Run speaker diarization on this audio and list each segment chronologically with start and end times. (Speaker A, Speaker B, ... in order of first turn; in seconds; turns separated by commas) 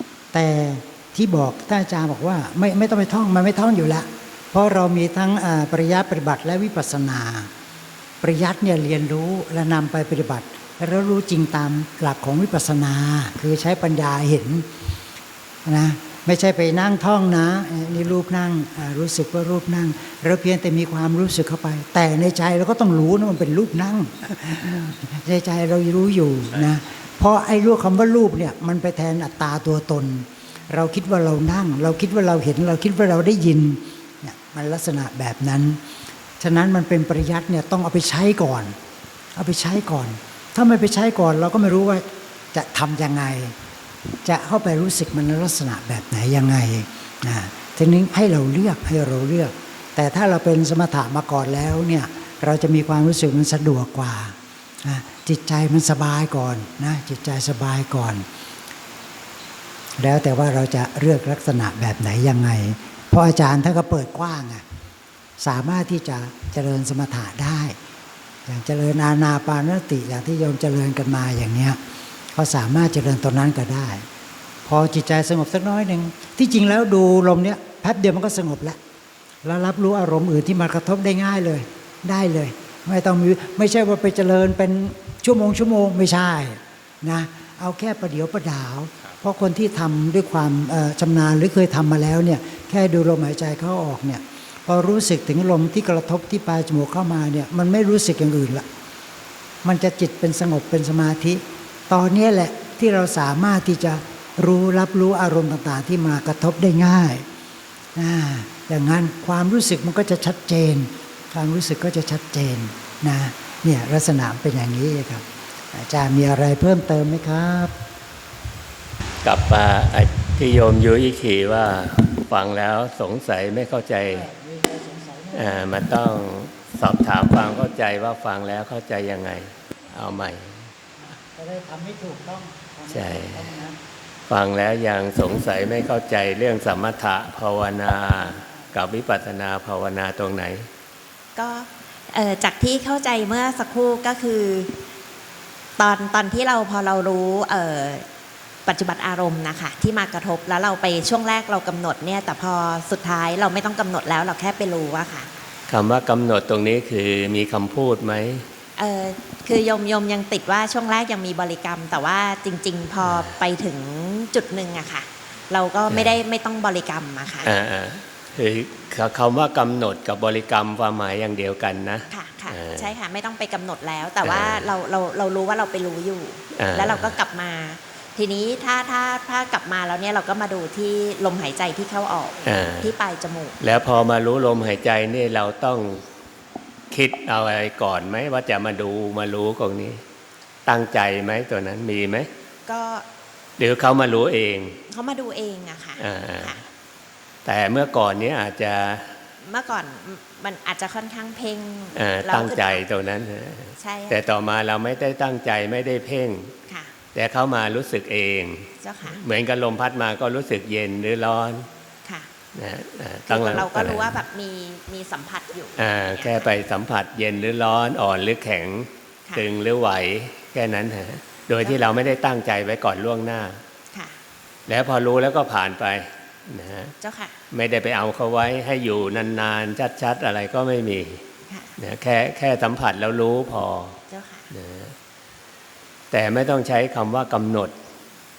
Speaker A: 0.3-7.5, Speaker A: 8.2-14.7, Speaker A: 15.7-35.8, Speaker A: 36.4-38.8, Speaker A: 39.4-43.5, Speaker A: 44.2-58.3, Speaker A: 60.0-64.6, Speaker A: 65.4-67.8, Speaker A: 68.5-71.8, Speaker A: 72.3-74.1, Speaker A: 74.7-78.8, Speaker A: 79.4-98.7, Speaker A: 99.6-107.3, Speaker A: 108.0-117.7, Speaker B: 119.2-124.3, Speaker A: 124.1-125.7, Speaker B: 125.3-130.6, Speaker A: 131.3-133.8, Speaker B: 132.9-133.5, Speaker B: 134.3-140.7, Speaker C: 141.4-144.7, Speaker C: 145.8-148.1, Speaker C: 148.7-155.3, Speaker B: 155.7-158.5, Speaker C: 158.8-167.5, Speaker B: 165.9-166.2, Speaker B: 167.4-172.9, Speaker C: 172.1-183.8, Speaker B: 174.2-174.7, Speaker B: 176.6-177.2, Speaker B: 182.4-182.9, Speaker B: 183.6-186.1, Speaker B: 186.9-190.0, Speaker B: 190.7-192.3, Speaker C: 192.7-193.1, Speaker B: 193.6-194.8, Speaker C: 194.9-196.6, Speaker B: 196.0-196.6, Speaker B: 197.4-199.2, Speaker C: 199.4-202.8, Speaker B: 201.9-206.5, Speaker C: 203.8-204.2, Speaker B: 207.1-211.7, Speaker C: 208.8-209.2, Speaker B: 212.6-214.1, Speaker C: 213.3-216.5, Speaker B: 215.8-223.6, Speaker B: 224.7-226.9, Speaker C: 227.0-227.3, Speaker B: 227.5-231.2, Speaker C: 231.5-231.8, Speaker B: 231.8-234.0, Speaker C: 234.1-234.5, Speaker B: 234.5-234.9, Speaker B: 236.1-237.7